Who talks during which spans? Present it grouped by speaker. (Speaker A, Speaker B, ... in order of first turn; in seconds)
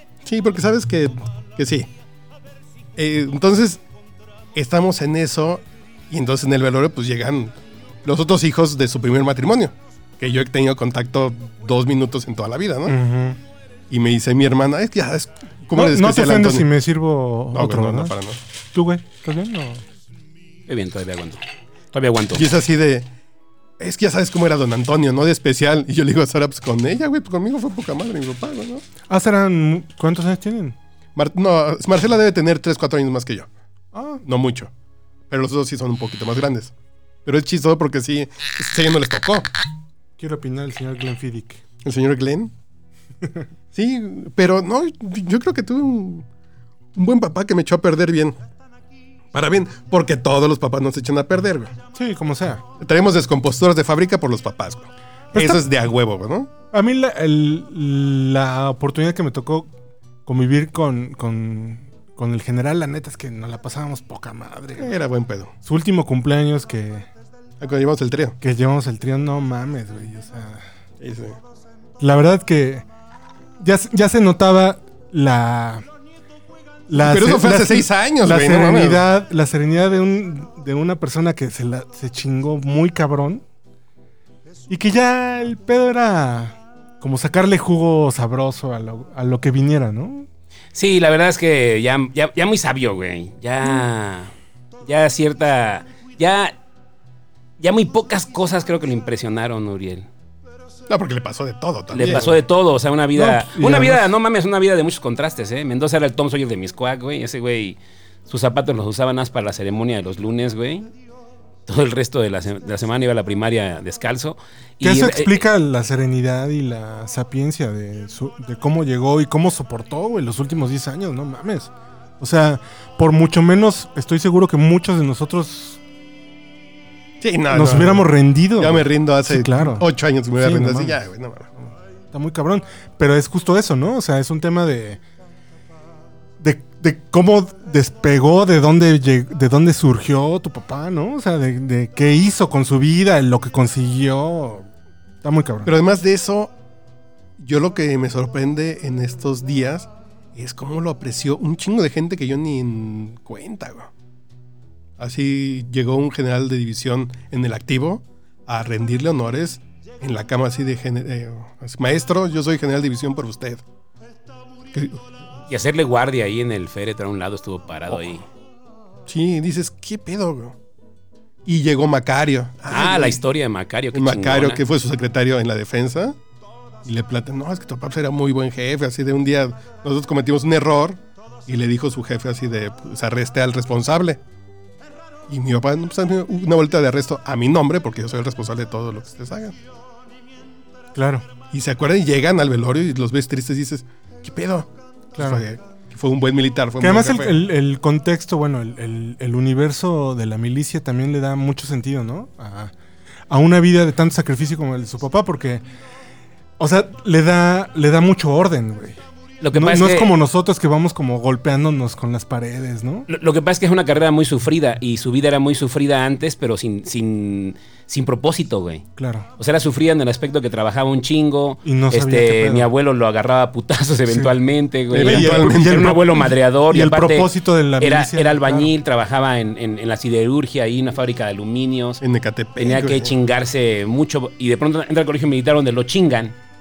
Speaker A: 0.2-1.9, 3.0-3.8, 4.5-13.0, 13.9-16.7, 17.5-18.4, 22.3-23.1, 23.8-28.9, 31.2-33.5, 34.2-34.7, 35.3-36.7, 37.2-39.5, 41.8-42.5, 43.7-46.3, 47.0-48.4, 49.3-51.8, 52.8-56.5, 64.8-65.5, 67.6-68.4, 71.0-71.4, 77.0-79.0, 100.9-102.3, 127.2-131.5, 145.7-146.5, 147.4-153.9, 155.0-163.6, 164.7-165.0, 169.1-170.6, 171.5-173.2, 173.9-176.2, 176.8-184.2, 185.3-189.6, 191.5-197.4, 224.9-225.9, 232.0-233.1
Speaker B: 12.9-13.4, 15.7-18.2, 18.7-19.8, 29.1-30.8, 33.9-34.2, 40.2-41.6, 51.9-52.6, 55.3-55.6, 56.7-59.7, 60.3-64.9, 65.7-67.1, 68.4-70.7, 72.0-72.9, 73.6-75.9, 76.9-83.4, 84.7-90.3, 103.1-104.1, 114.8-125.8, 127.5-129.9, 130.4-131.0, 132.1-135.0, 136.4-144.7, 145.2-145.7, 190.9-191.3, 195.2-195.4, 196.8-202.7, 203.3-205.6, 206.6-209.0, 209.5-213.1, 219.0-219.3, 221.6-222.7, 224.9-228.7
Speaker C: 20.7-21.4, 21.9-22.4, 90.7-94.3, 94.8-96.5, 97.6-100.1, 101.9-110.9, 111.7-115.4, 165.5-168.2, 172.7-174.6, 209.4-210.1, 213.1-218.8, 219.4-232.0, 232.6-236.4